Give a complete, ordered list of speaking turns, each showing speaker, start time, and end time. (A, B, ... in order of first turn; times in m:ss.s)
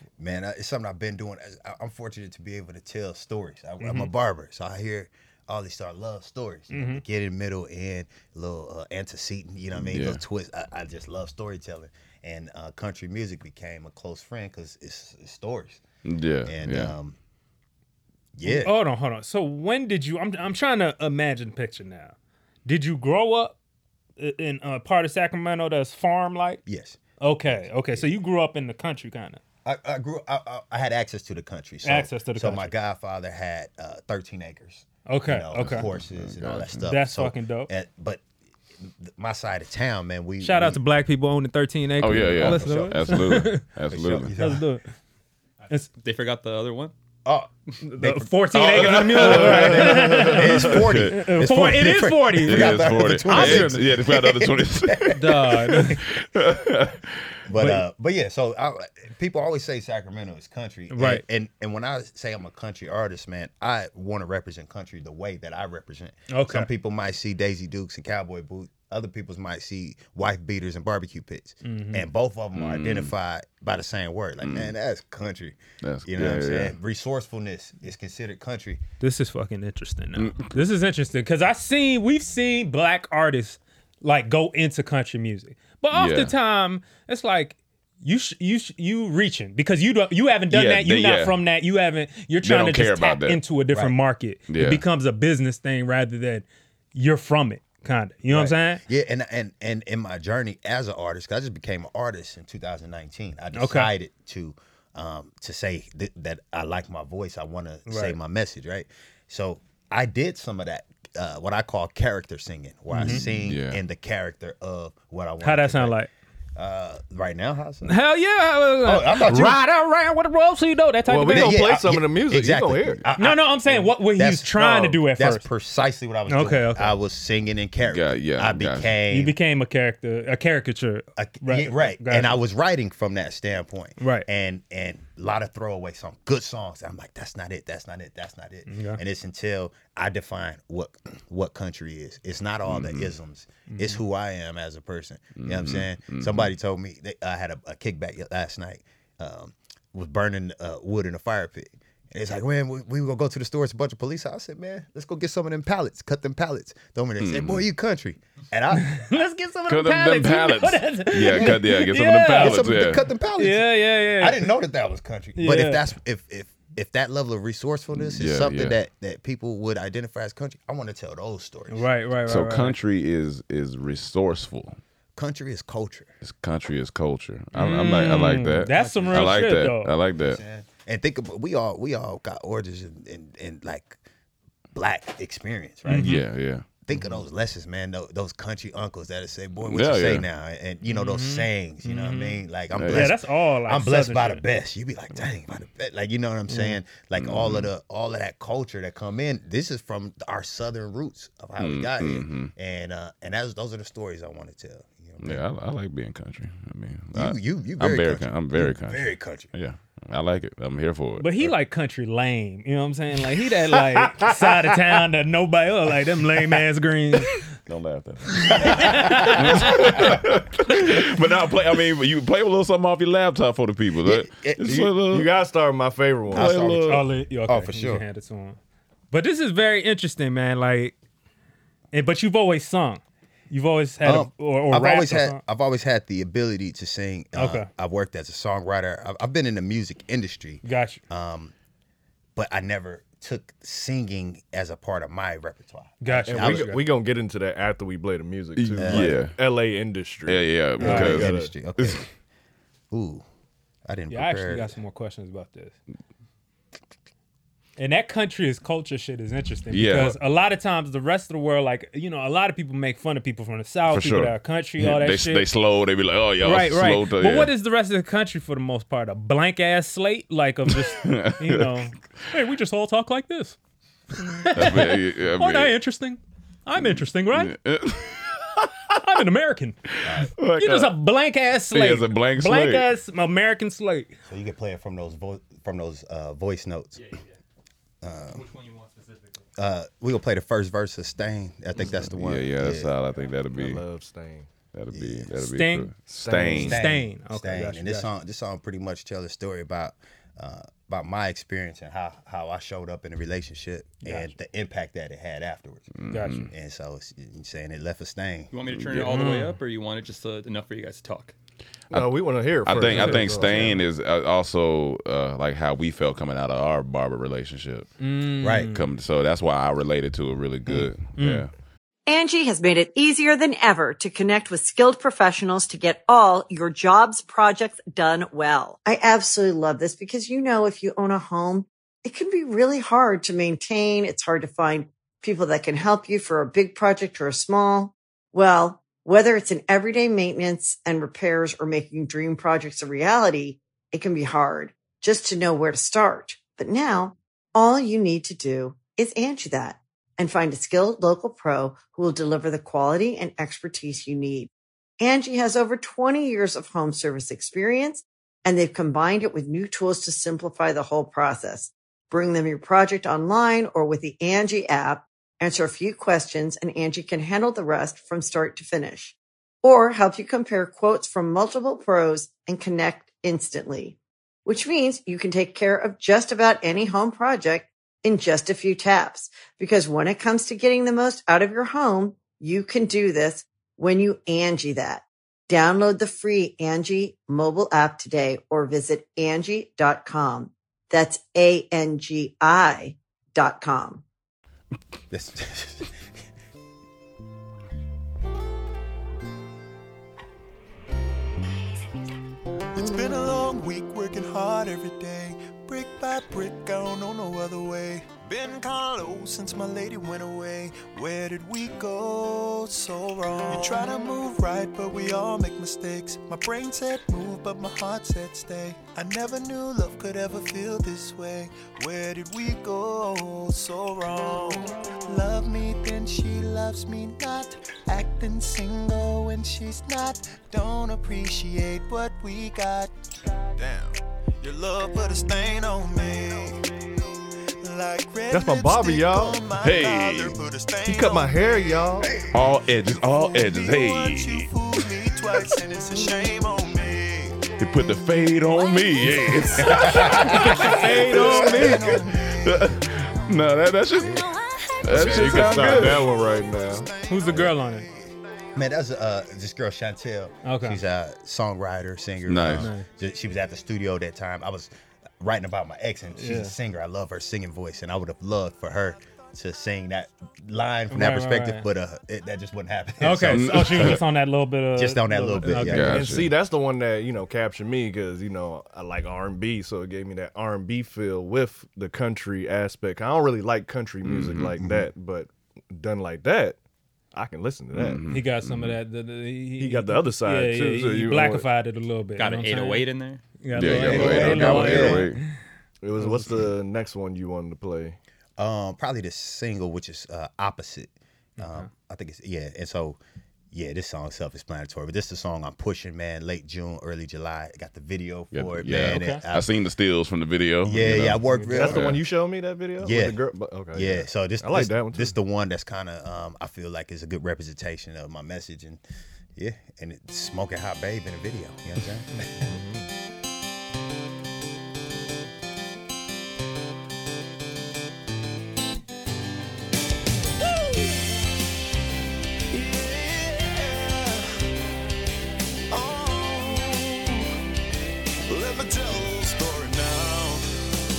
0:00.2-0:15.8 A
0:03.8-0:04.1 B
0:06.7-0:07.0 B
0:09.8-0:10.2 C
0:16.0-0:17.0 C
0:16.5-0:17.2 A
0:18.4-0:18.7 A
0:18.4-0:22.1 B
0:22.6-0:23.6 B
0:24.2-0:26.6 B
0:26.6-0:28.1 A
0:27.2-0:29.4 B
0:29.6-0:38.2 A
0:31.8-0:32.7 B
0:35.1-0:35.9 B
0:35.6-0:36.9 C
0:36.8-0:37.7 B
0:38.8-0:40.8 A
0:40.4-0:43.6 B
0:42.0-0:44.3 C
0:42.4-0:43.3 A
0:43.9-0:44.6 A
0:44.4-0:44.8 B
0:45.9-0:46.9 D
0:47.2-0:55.9 A
0:47.8-0:53.9 B
0:48.5-0:51.2 C
0:49.2-0:50.3 E
0:52.4-0:57.1 C
0:55.1-0:56.0 B
0:57.5-1:18.8 A
0:57.5-0:57.9 B
1:00.9-1:01.2 B
1:06.3-1:06.7 B
1:11.6-1:12.1 B
1:12.6-1:13.1 C
1:14.4-1:14.7 C
1:15.8-1:16.7 C
1:19.0-1:38.8 B
1:20.2-1:20.5 C
1:25.9-1:26.3 C
1:30.5-1:31.4 C
1:32.4-1:33.4 C
1:34.5-1:34.8 C
1:38.3-1:56.0 A
1:43.5-1:43.9 B
1:47.9-1:48.2 B
1:52.9-1:53.3 B
1:52.9-1:53.8 C
1:55.4-1:56.1 B
1:56.6-1:58.0 A
1:57.8-2:01.7 B
1:58.8-1:59.6 A
2:01.1-2:03.0 E
2:01.3-2:09.3 A
2:03.2-2:05.5 B
2:06.3-2:07.0 B
2:07.9-2:09.0 C
2:09.1-2:12.4 B
2:11.2-2:39.0 A
2:14.0-2:14.3 B
2:18.7-2:19.0 B
2:22.6-2:23.1 C
2:23.7-2:24.0 B
2:25.4-2:26.5 C
2:37.2-2:37.6 C
2:38.7-2:42.8 B
2:39.7-2:43.0 C
2:42.3-2:51.8 A
2:43.4-2:44.5 B
2:45.4-2:45.8 B
2:47.9-2:48.8 C
2:51.7-2:52.8 B
2:52.3-2:54.8 C
2:55.2-2:56.1 A
2:56.2-3:00.4 C
2:57.6-2:59.9 B
2:58.7-2:59.5 A
3:00.3-3:04.0 A
3:04.7-3:06.2 A
3:05.9-3:06.2 B
3:06.0-3:06.6 C
3:06.8-3:25.4 A
3:09.6-3:10.2 C
3:10.9-3:14.4 B
3:12.7-3:13.1 C
3:16.5-3:16.8 B
3:17.2-3:17.7 C
3:21.6-3:22.5 C
3:25.2-3:31.4 C
3:27.1-3:29.5 A
3:31.2-3:37.4 B
3:37.7-3:45.3 C
3:38.4-3:40.0 B
3:38.4-3:40.2 A
3:44.0-3:44.9 A
3:44.7-3:46.6 E
3:46.3-3:48.0 A
3:46.3-3:47.0 C
3:46.9-3:48.6 B
3:49.1-3:51.0 B
3:51.9-3:55.4 B
3:54.0-4:01.5 A
3:57.3-3:57.7 B
4:00.6-4:01.0 B
4:02.4-4:06.8 A
4:06.0-4:06.8 B
4:06.3-4:11.5 E
4:08.6-4:09.4 C
4:08.8-4:09.2 A
4:10.3-4:12.0 C
4:10.8-4:11.2 B
4:10.8-4:12.1 A
4:12.9-4:13.2 A
4:13.9-4:14.8 A
4:14.1-4:15.8 B
4:17.8-4:25.5 B
4:19.7-4:20.2 C
4:23.9-4:27.5 C
4:26.4-4:33.6 B
4:30.8-4:31.8 C
4:34.1-4:37.6 B
4:34.5-4:35.8 C
4:36.8-4:38.9 C
4:38.9-4:39.8 B
4:40.0-4:40.3 A
4:40.0-4:40.9 C
4:40.4-4:44.2 B
4:41.7-4:42.9 C
4:44.3-4:47.0 A
4:47.0-4:47.2 D
4:48.0-4:48.4 A
4:48.3-4:49.4 D
4:49.6-4:52.9 A
4:52.0-4:53.8 C
4:53.5-4:54.5 E
4:54.7-4:56.8 C
4:54.9-4:55.3 A
4:55.4-4:58.1 B
4:56.1-4:56.8 E
4:56.6-5:08.5 A
5:04.0-5:04.3 B
5:06.0-5:06.5 C
5:06.1-5:06.5 B
5:08.5-5:11.3 D
5:08.7-5:09.1 C
5:08.9-5:09.6 B
5:11.9-5:13.8 E
5:12.6-5:17.9 C
5:12.9-5:13.4 B
5:18.0-5:18.9 B
5:18.4-5:18.7 A
5:18.7-5:21.5 C
5:21.2-5:21.5 B
5:22.1-6:34.0 F
6:35.1-6:35.9 A
6:42.7-7:12.9 G
7:13.6-7:16.6 G
7:17.6-7:27.4 G
7:18.3-7:19.4 E
7:19.6-7:20.4 C
7:20.9-7:22.2 E
7:22.3-7:24.5 C
7:27.6-7:34.3 C
7:29.1-7:32.8 G
7:29.6-7:31.8 A
7:30.0-7:31.9 B
7:34.0-7:34.3 A
7:34.8-7:36.1 C
7:34.9-7:36.9 E
7:34.9-7:38.1 G
7:37.1-7:37.9 B
7:38.6-7:54.0 A
7:40.4-7:40.8 B
7:42.3-7:42.7 C
7:42.5-7:42.9 B
7:46.1-7:46.5 B
7:50.9-7:51.6 B
7:53.0-7:56.0 B
7:53.3-7:54.0 C
7:54.7-7:56.1 A
7:55.6-7:56.3 C
7:55.7-8:06.6 E
8:04.0-8:04.6 C
8:07.1-8:08.0 E
8:07.7-8:08.8 C
8:08.1-8:15.3 B
8:09.6-8:11.5 E
8:12.2-8:13.2 D
8:13.6-8:15.2 C
8:13.7-8:15.1 A
8:15.8-8:18.0 E
8:16.0-8:16.4 B
8:18.4-8:23.0 A
8:21.4-8:21.7 B
8:23.5-8:29.5 A
8:28.3-8:32.0 C
8:28.8-8:29.2 B
8:30.6-8:31.9 A
8:31.3-8:31.7 B
8:31.3-8:35.2 E
8:32.8-8:33.2 A
8:33.7-8:38.8 A
8:39.4-8:42.5 A
8:42.4-8:42.9 E
8:52.5-8:54.3 G
8:55.7-8:57.3 G
8:58.3-9:00.4 G